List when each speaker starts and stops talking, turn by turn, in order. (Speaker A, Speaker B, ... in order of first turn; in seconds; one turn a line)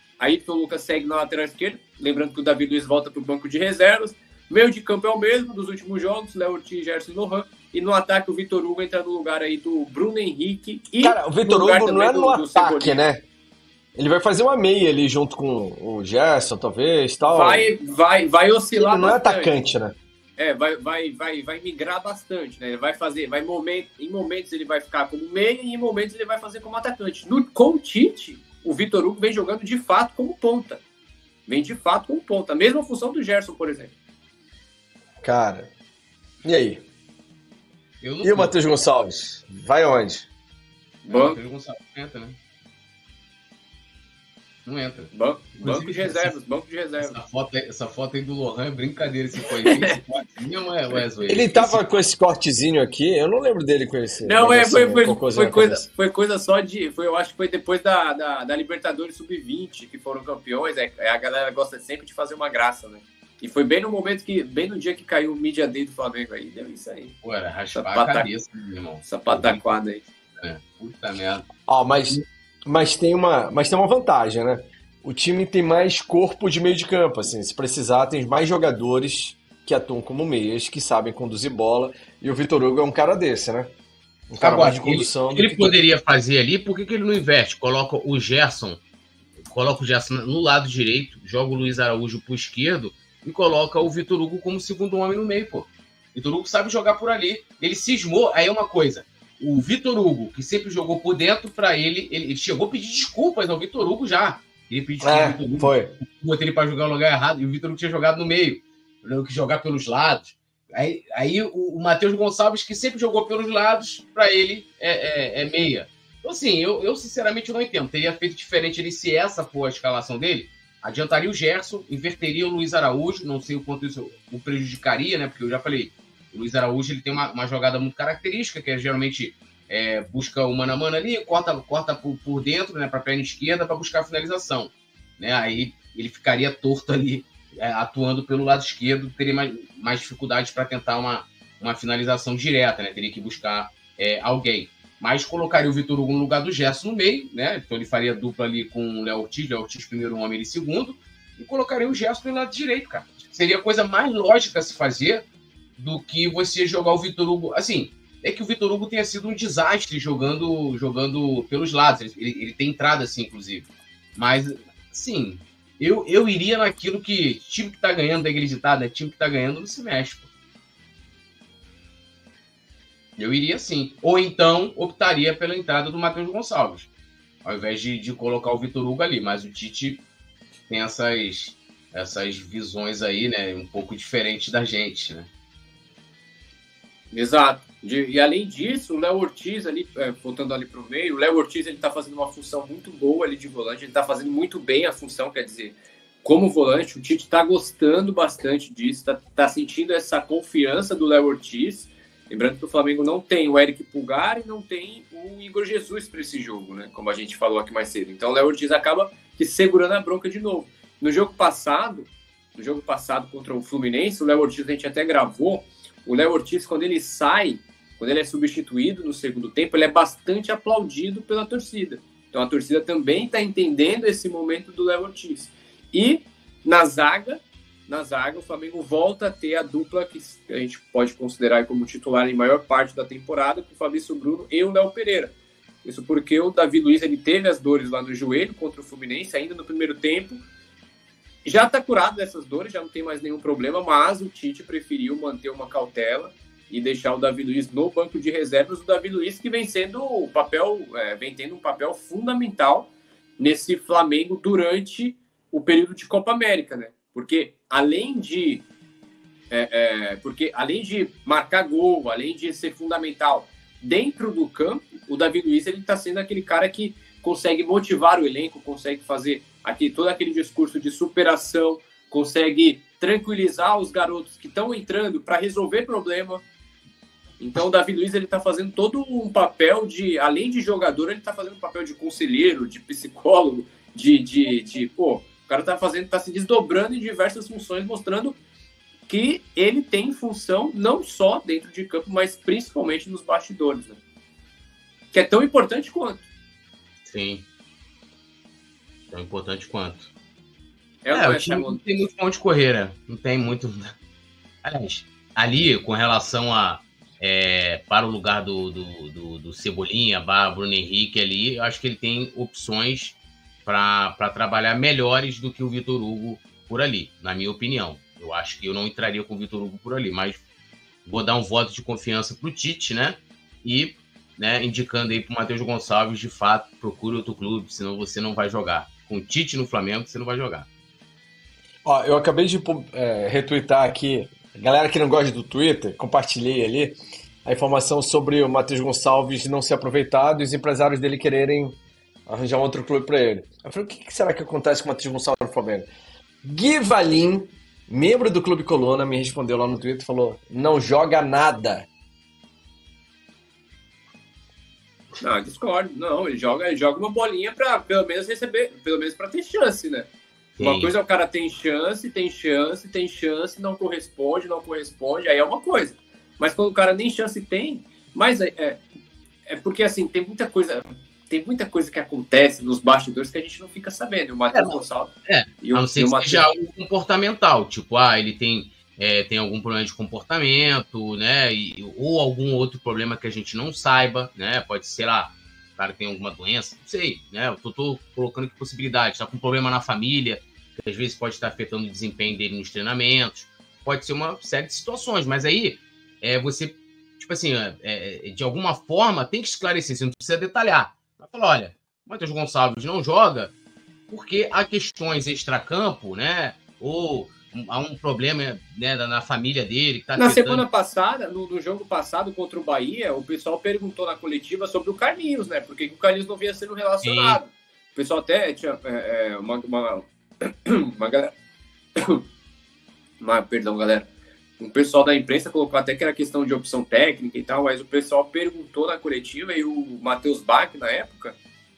Speaker A: 0.2-13.0
Speaker B: 11.0-13.2
Speaker B: 13.9-17.7
Speaker A: 17.3-19.5
Speaker B: 18.7-20.0
Speaker A: 20.4-30.8
Speaker A: 31.5-33.9
Speaker B: 35.2-35.7
Speaker B: 36.4-36.8
Speaker C: 38.0-38.5
Speaker B: 38.2-40.3
Speaker A: 41.0-41.4
Speaker C: 41.1-42.4
Speaker C: 44.6-46.4
Speaker A: 45.1-47.2
Speaker C: 47.0-51.8
Speaker A: 49.5-50.0
Speaker B: 51.3-55.9
Speaker A: 54.2-67.1
Speaker C: 67.2-69.6
Speaker A: 67.7-68.3
Speaker A: 69.0-70.0
Speaker C: 70.4-71.5
Speaker B: 71.7-83.7
Speaker B: 84.3-85.7
Speaker C: 84.4-88.8
Speaker C: 89.4-170.3
Speaker B: 105.0-105.9
Speaker C: 173.2-176.9
Speaker C: 177.4-180.0
Speaker C: 180.7-185.3
Speaker A: 187.1-235.3
Speaker A: 235.8-240.4
Speaker A: 241.4-258.6
Speaker A: 259.5-276.4
Speaker A: 277.4-288.4
Speaker A: 289.1-294.0
Speaker A: 295.1-296.2
Speaker C: 297.1-297.5
Speaker C: 299.1-300.1
Speaker A: 301.0-301.8
Speaker C: 301.1-304.0
Speaker C: 304.6-320.4
Speaker C: 321.0-330.7
Speaker B: 331.8-345.9
Speaker B: 346.4-351.9
Speaker A: 355.2-360.1
Speaker C: 360.6-360.9
Speaker A: 360.6-368.8
Speaker A: 369.5-376.5
Speaker C: 374.5-403.5
Speaker C: 404.1-410.6
Speaker A: 410.1-421.3
Speaker C: 417.0-417.4
Speaker A: 423.2-424.1
Speaker A: 424.6-431.4